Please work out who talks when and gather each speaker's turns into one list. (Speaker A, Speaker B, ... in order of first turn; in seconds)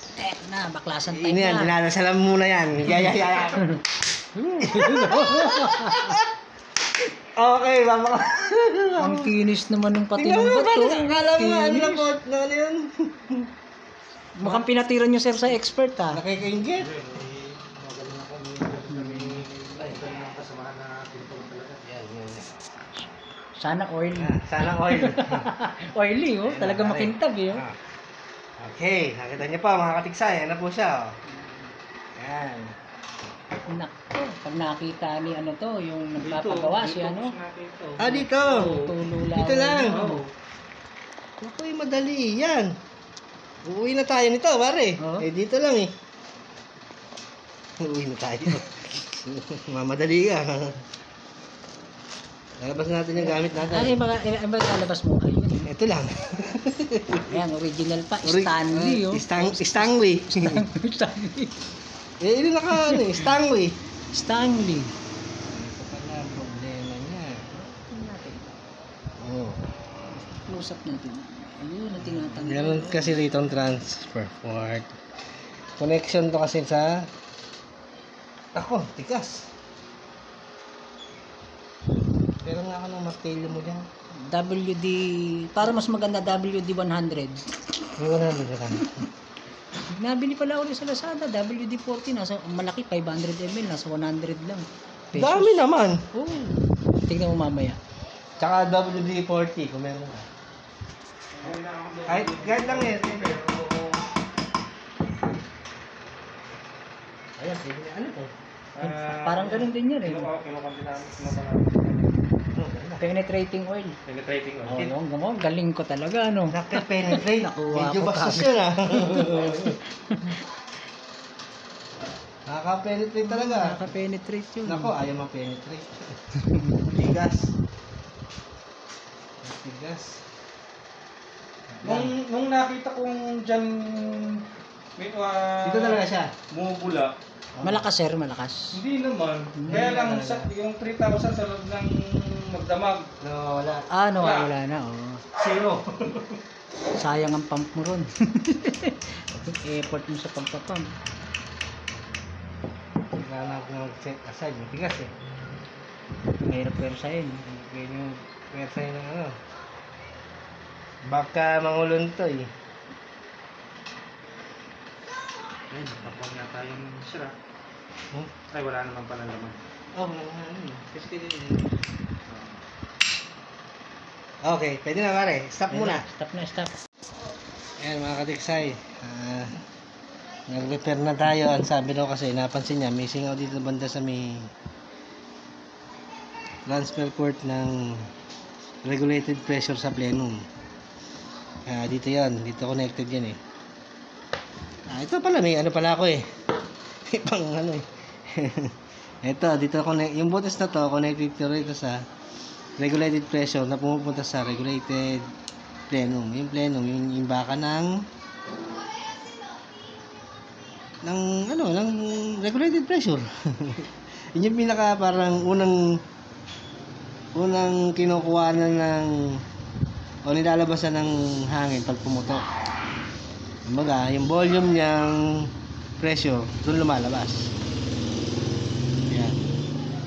Speaker A: 0.1-1.7, 3.4-3.8, 4.4-6.2, 9.0-12.1, 14.4-16.2, 18.9-19.4, 23.6-27.6, 33.7-37.4, 38.2-40.2, 45.0-45.3, 53.2-55.7, 57.3-61.6, 62.7-63.3, 64.1-64.9, 67.5-68.5, 70.1-73.6, 84.2-87.4, 88.8-89.0, 89.8-97.8, 108.8-110.3, 113.0-114.0, 114.6-120.4, 123.2-124.9, 126.4-126.8, 137.6-138.8, 139.6-140.0, 143.9-145.2, 146.9-150.9, 156.4-157.4, 175.7-176.7
Speaker B: 1.1-3.7, 4.6-6.3, 7.3-9.3, 10.2-13.5, 16.1-16.9, 21.8-22.5, 24.1-25.5, 26.4-27.8, 28.6-31.1, 32.2-32.7, 38.0-40.0, 41.4-42.7, 43.6-45.9, 47.8-50.8, 52.6-54.0, 55.6-57.4, 58.2-60.6, 62.2-63.8, 65.5-67.4, 69.2-69.7, 72.0-75.0, 75.8-77.0, 78.5-79.4, 82.4-83.8, 88.0-89.0, 95.1-96.0, 98.4-100.3, 102.1-103.4, 107.4-108.3, 112.5-113.0, 116.5-119.8, 122.5-123.8, 124.7-126.1, 126.8-127.5, 129.4-130.2, 131.7-132.1, 135.6-136.3, 137.6-137.8, 139.7-140.5, 143.2-143.8, 153.2-155.1, 157.4-159.3, 161.0-162.5, 169.9-171.7, 174.4-176.0, 177.8-179.6, 180.5-184.5, 186.7-188.1, 188.8-190.4, 191.7-193.4, 194.9-196.2, 197.1-198.7, 199.2-202.0, 202.8-205.2, 205.9-207.9, 211.0-216.0, 217.3-219.4, 220.2-222.4, 223.7-227.5, 229.1-229.4
Speaker C: 16.8-21.8, 36.2-39.0, 39.9-40.3, 101.4-104.0, 108.7-112.2, 114.0-114.8, 131.8-134.4, 135.0-137.1, 138.7-143.1, 144.2-144.5, 145.3-146.4, 165.7-167.3, 168.5-169.6, 172.3-172.6